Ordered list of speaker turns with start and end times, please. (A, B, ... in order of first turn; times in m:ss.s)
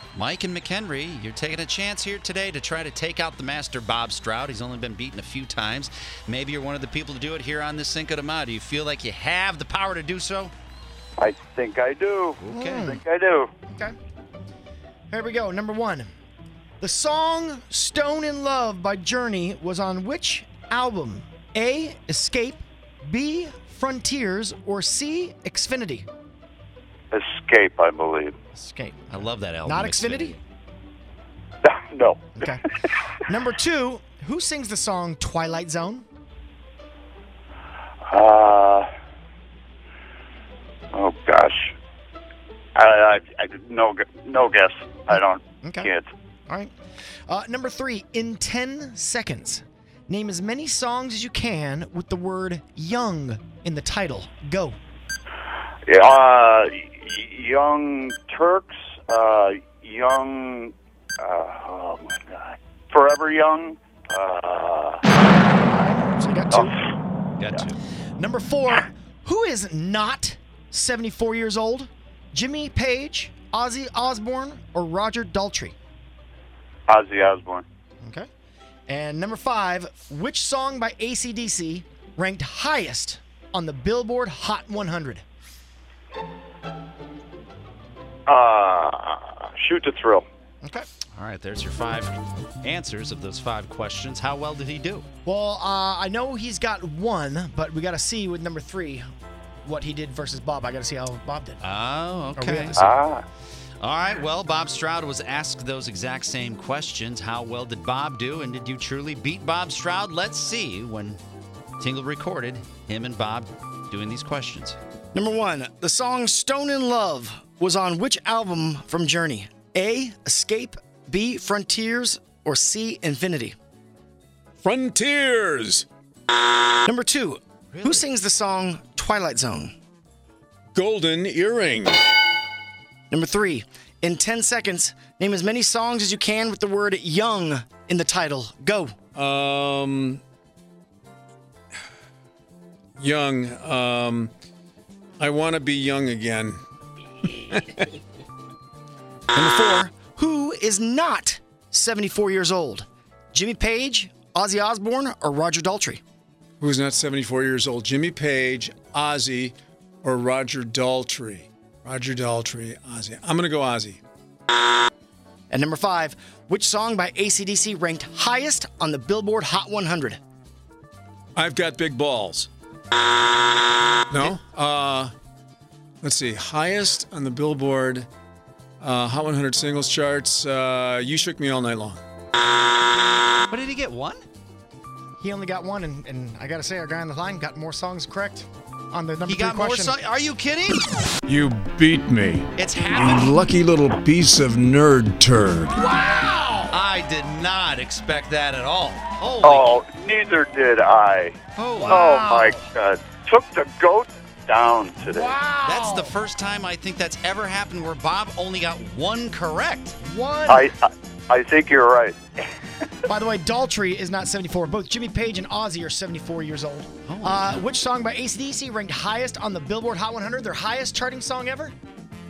0:00.1-0:10.5 A
0:11.2-0:13.5 B
0:12.4-0:13.0 A
0:12.5-0:13.0 C
0:13.7-0:14.0 C
0:15.1-0:16.1 C
0:16.8-0:26.1 C
0:27.1-0:28.4 B
0:28.6-0:30.4 C
0:29.1-0:30.4 A
0:31.6-0:32.4 B
0:32.4-0:32.6 C
0:33.2-0:36.0 C
0:38.1-0:38.9 B
0:40.9-0:41.7 B
0:42.8-0:46.1 B
0:45.1-0:45.9 C
0:47.3-0:54.8 C
0:55.9-1:05.0 B
1:05.6-1:06.8 C
1:07.4-1:07.8 A
1:08.2-1:15.8 C
1:16.9-1:17.6 B
1:18.0-1:18.3 C
1:18.9-1:25.2 C
1:28.3-1:30.2 B
1:31.2-1:35.1 A
1:35.2-1:39.1 C
1:39.6-1:41.6 C
1:41.6-1:42.8 A
1:42.4-1:42.9 C
1:42.8-1:43.2 B
1:43.8-1:51.2 A
1:51.8-1:54.8 A
1:55.1-2:03.6 C
2:04.6-2:05.9 D
2:06.8-2:09.8 C
2:07.7-2:08.0 A
2:10.7-2:12.0 D
2:13.1-2:19.0 C
2:19.2-2:20.2 D
2:23.0-2:24.3 D
2:25.2-2:26.6 D
2:27.2-2:27.9 D
2:29.3-2:36.0 C
2:36.6-2:44.0 D
2:45.5-2:50.2 C
2:51.4-2:52.5 D
2:54.1-2:55.1 D
2:56.0-2:58.1 D
2:58.8-3:02.0 D
3:03.5-3:04.3 A
3:05.2-3:10.0 C
3:09.3-3:10.8 A
3:11.3-3:15.9 D
3:12.6-3:13.3 A
3:15.8-3:16.7 C
3:16.7-3:19.8 A
3:19.4-3:25.4 B
3:21.6-3:22.1 A
3:21.8-3:22.7 C
3:25.0-3:26.2 C
3:25.6-3:30.0 A
3:30.0-3:30.7 C
3:30.5-3:32.2 B
3:33.1-3:41.8 C
3:37.1-3:37.6 A